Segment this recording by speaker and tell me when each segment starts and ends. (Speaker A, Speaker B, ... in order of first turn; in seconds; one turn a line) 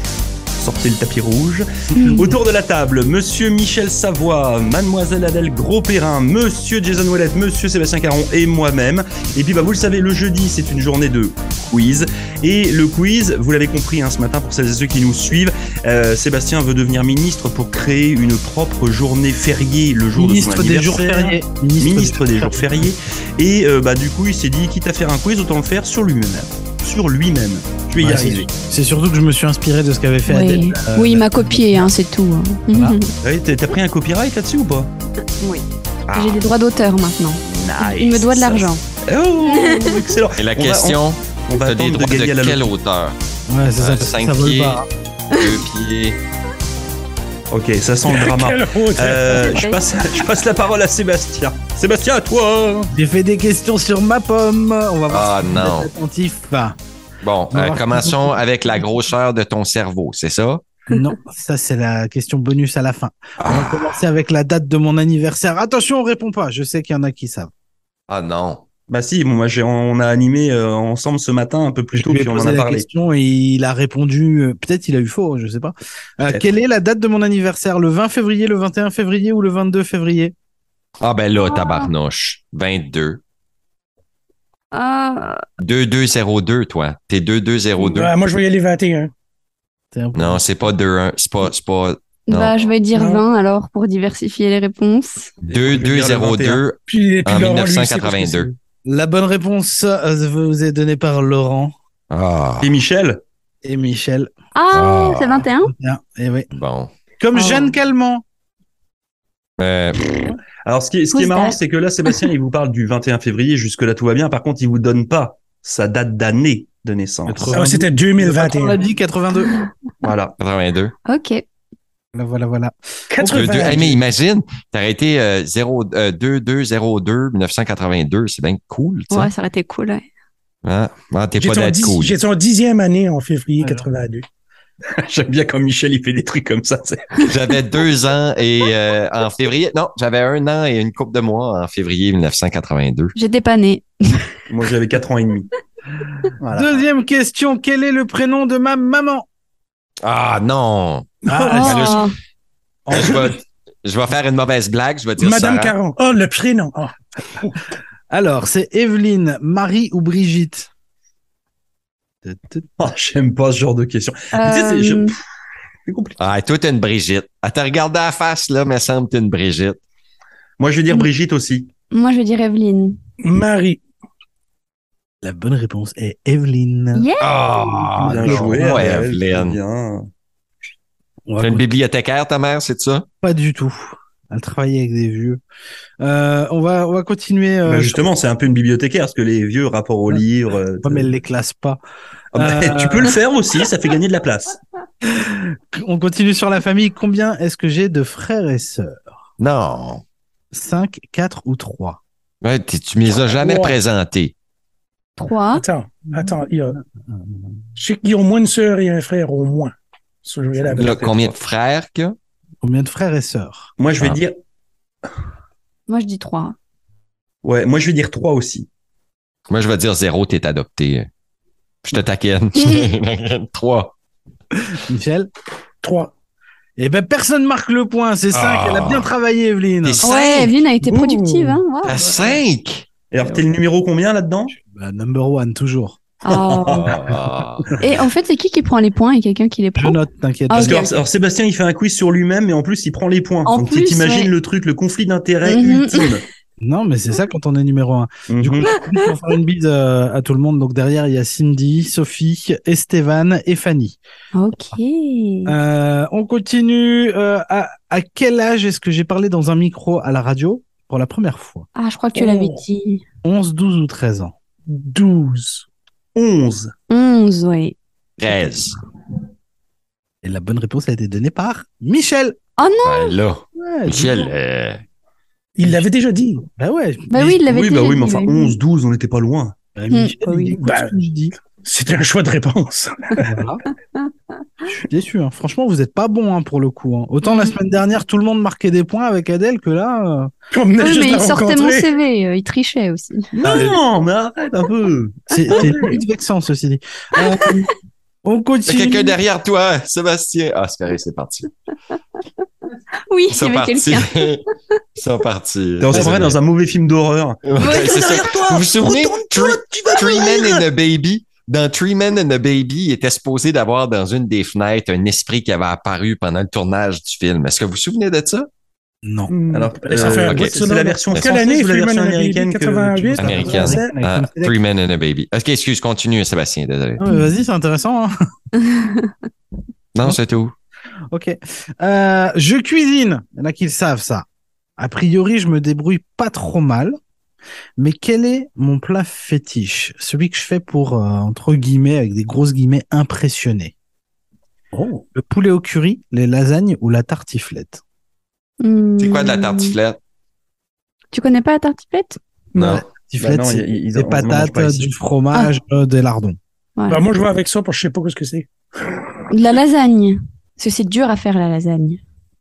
Speaker A: 0.6-28.5
Speaker B: 1.9-2.3
Speaker C: 1.9-2.3
Speaker B: 20.1-22.9
Speaker B: 28.0-31.9
Speaker C: 30.3-33.1
Speaker A: 33.2-34.9
Speaker C: 35.4-38.8
Speaker A: 36.1-36.4
Speaker A: 37.5-42.7
Speaker C: 39.4-40.0
Speaker D: 40.4-43.2
Speaker B: 43.5-44.9
Speaker D: 43.8-44.8
Speaker D: 45.4-46.2
Speaker A: 47.5-52.9
Speaker E: 48.0-49.5
Speaker C: 49.3-50.3
Speaker B: 52.9-56.8
Speaker D: 55.1-55.9
Speaker D: 57.2-60.6
Speaker B: 57.5-58.4
Speaker B: 60.9-67.5
Speaker D: 63.4-64.0
Speaker D: 68.1-68.6
Speaker A: 68.9-72.9
Speaker B: 71.9-80.3
Speaker D: 81.0-83.2
Speaker C: 81.4-81.9
Speaker C: 84.7-85.4
Speaker D: 85.6-88.1
Speaker E: 88.0-89.1
Speaker B: 89.9-90.7
Speaker D: 90.1-92.7
Speaker C: 92.3-95.3
Speaker E: 92.9-93.2
Speaker D: 95.4-98.5
Speaker A: 95.5-96.7
Speaker E: 96.9-98.5
Speaker B: 98.8-101.7
Speaker D: 102.1-102.7
Speaker A: 102.6-103.2
Speaker B: 103.6-104.3
Speaker C: 104.5-105.7
Speaker D: 104.7-105.4
Speaker B: 105.5-106.5
Speaker D: 106.6-106.9
Speaker B: 107.2-108.2
Speaker C: 107.3-107.8
Speaker D: 109.6-110.0
Speaker A: 110.7-117.6
Speaker C: 111.1-111.6
Speaker B: 117.3-119.6
Speaker E: 117.5-118.8
Speaker A: 120.0-120.3
Speaker D: 120.4-120.9
Speaker C: 121.1-121.4
Speaker B: 122.1-124.0
Speaker E: 123.1-123.9
Speaker D: 123.3-129.3
Speaker C: 129.1-130.1
Speaker D: 130.6-132.2
Speaker E: 131.3-134.2
Speaker B: 133.6-133.9
Speaker A: 135.1-137.1
Speaker D: 137.2-143.1
Speaker C: 143.2-144.3
Speaker A: 144.5-145.5
Speaker A: 146.4-146.8
Speaker B: 146.5-149.2
Speaker D: 150.0-151.1
Speaker B: 151.3-152.0
Speaker C: 151.4-152.2
Speaker D: 151.6-152.0
Speaker B: 152.8-153.4
Speaker D: 152.9-155.8
Speaker E: 155.2-157.5
Speaker B: 158.1-160.7
Speaker B: 162.2-162.9
Speaker A: 162.8-165.2
Speaker C: 164.3-165.1
Speaker A: 165.8-166.2
Speaker D: 166.2-169.8
Speaker A: 170.6-171.7
Speaker C: 171.9-172.9
Speaker E: 173.2-173.8
Speaker B: 175.2-177.1
Speaker C: 176.9-177.5
Speaker D: 177.2-179.6
Speaker B: 178.0-178.9
Speaker A: 178.0-180.0
Speaker B: 181.3-181.7
Speaker D: 181.4-183.1
Speaker B: 183.2-185.4
Speaker B: 186.0-188.1
Speaker A: 187.7-191.1
Speaker B: 190.8-191.8
Speaker A: 192.3-194.6
Speaker B: 192.3-193.2
Speaker B: 195.0-199.0
Speaker D: 199.4-200.0
Speaker B: 200.5-202.0
Speaker D: 202.4-204.3
Speaker E: 203.3-203.8
Speaker C: 205.2-205.6
Speaker E: 205.5-206.8
Speaker B: 207.1-207.5
Speaker E: 207.8-210.9
Speaker A: 210.6-211.3
Speaker D: 210.8-212.2
Speaker B: 212.6-213.7
Speaker A: 213.8-214.3
Speaker C: 215.9-216.6
Speaker A: 217.4-218.7
Speaker D: 219.5-221.1
Speaker D: 221.8-223.9
Speaker B: 224.5-225.3
Speaker E: 225.8-226.1
Speaker B: 226.8-230.0
Speaker D: 228.3-229.1
Speaker D: 229.8-230.6
Speaker C: 230.0-232.4
Speaker E: 230.8-231.6
Speaker D: 231.8-232.8
Speaker A: 233.1-234.5
Speaker B: 234.5-236.0
Speaker C: 236.2-236.9
Speaker A: 236.3-236.8
Speaker D: 236.7-237.7
Speaker C: 237.8-240.0
Speaker B: 239.8-240.9
Speaker C: 240.5-240.9
Speaker A: 240.6-246.2
Speaker C: 243.5-244.3
Speaker C: 245.4-246.1
Speaker B: 246.6-254.0
Speaker A: 248.3-248.7
Speaker C: 248.7-249.1
Speaker C: 254.3-255.6
Speaker B: 255.5-261.7
Speaker C: 261.8-263.0
Speaker E: 262.1-262.6
Speaker B: 263.2-264.3
Speaker E: 264.7-265.6
Speaker A: 266.1-266.7
Speaker C: 266.9-267.8
Speaker D: 268.2-268.8
Speaker B: 270.2-272.4
Speaker C: 272.6-273.1
Speaker D: 272.8-274.8
Speaker B: 273.6-274.3
Speaker E: 275.6-276.4
Speaker B: 276.5-277.3
Speaker C: 277.1-278.5
Speaker A: 277.2-279.6
Speaker B: 279.8-281.4
Speaker C: 279.9-280.6
Speaker E: 280.6-281.0
Speaker E: 281.5-283.3
Speaker B: 283.2-283.6
Speaker B: 284.7-290.3
Speaker C: 287.2-287.5
Speaker E: 290.5-291.9
Speaker C: 290.8-293.3
Speaker A: 293.3-295.3
Speaker B: 293.5-293.8
Speaker B: 295.3-297.7
Speaker B: 298.2-299.1
Speaker D: 298.6-301.5
Speaker C: 303.1-304.3
Speaker D: 303.3-304.4
Speaker D: 305.0-306.4
Speaker A: 305.8-310.5
Speaker D: 307.4-318.5
Speaker C: 307.6-308.1
Speaker E: 310.0-310.3
Speaker B: 319.0-319.3
Speaker E: 319.3-323.9
Speaker A: 319.5-323.3
Speaker D: 319.9-321.3
Speaker B: 323.1-324.6
Speaker D: 323.2-327.0
Speaker B: 327.0-328.1
Speaker C: 327.1-327.3
Speaker C: 328.6-329.1
Speaker D: 329.9-330.5
Speaker B: 331.1-334.2
Speaker B: 334.8-337.0
Speaker B: 337.8-343.7
Speaker E: 344.7-345.0
Speaker B: 345.1-347.8
Speaker C: 348.6-349.8
Speaker D: 349.0-350.0
Speaker C: 351.1-352.2
Speaker D: 352.6-352.8
Speaker B: 352.6-356.4
Speaker A: 353.2-354.9
Speaker C: 356.8-357.0
Speaker E: 356.9-359.0
Speaker C: 359.3-362.0